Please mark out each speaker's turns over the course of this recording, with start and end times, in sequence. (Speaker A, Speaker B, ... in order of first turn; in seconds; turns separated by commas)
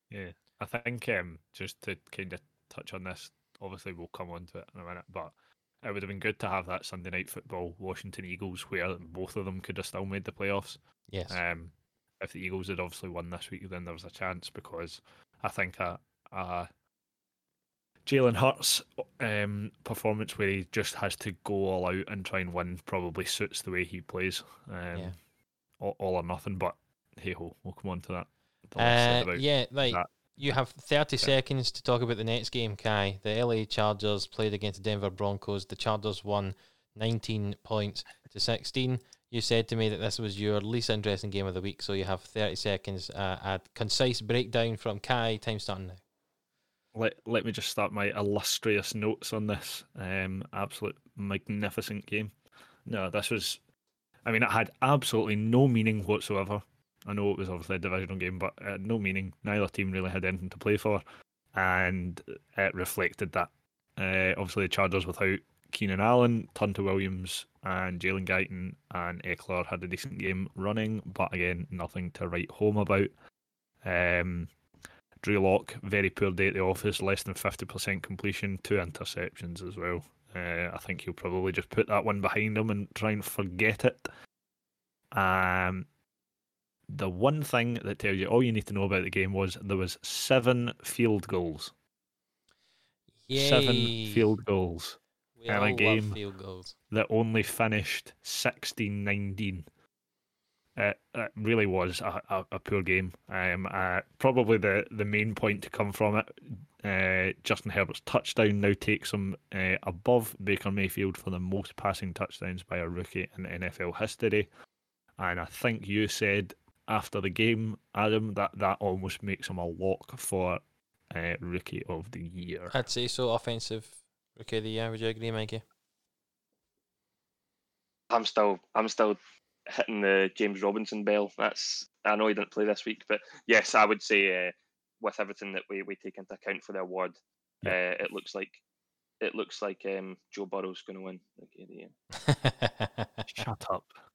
Speaker A: 0.1-16.7, Speaker B: 11.1-11.4, Speaker A: 18.0-25.2, Speaker A: 25.8-30.1, Speaker B: 28.8-46.0, Speaker A: 46.9-52.3, Speaker A: 52.9-53.6, Speaker A: 54.2-61.0, Speaker A: 61.5-73.1, Speaker A: 73.8-74.5, Speaker A: 75.2-84.1, Speaker A: 85.1-85.9, Speaker A: 86.9-91.7, Speaker B: 93.3-94.3, Speaker A: 93.3-96.2, Speaker B: 95.4-96.7, Speaker A: 96.9-99.7, Speaker A: 100.8-114.5, Speaker A: 115.2-122.7, Speaker B: 122.7-125.6, Speaker C: 128.1-138.6, Speaker C: 139.2-141.9, Speaker B: 142.2-143.4, Speaker A: 143.3-143.9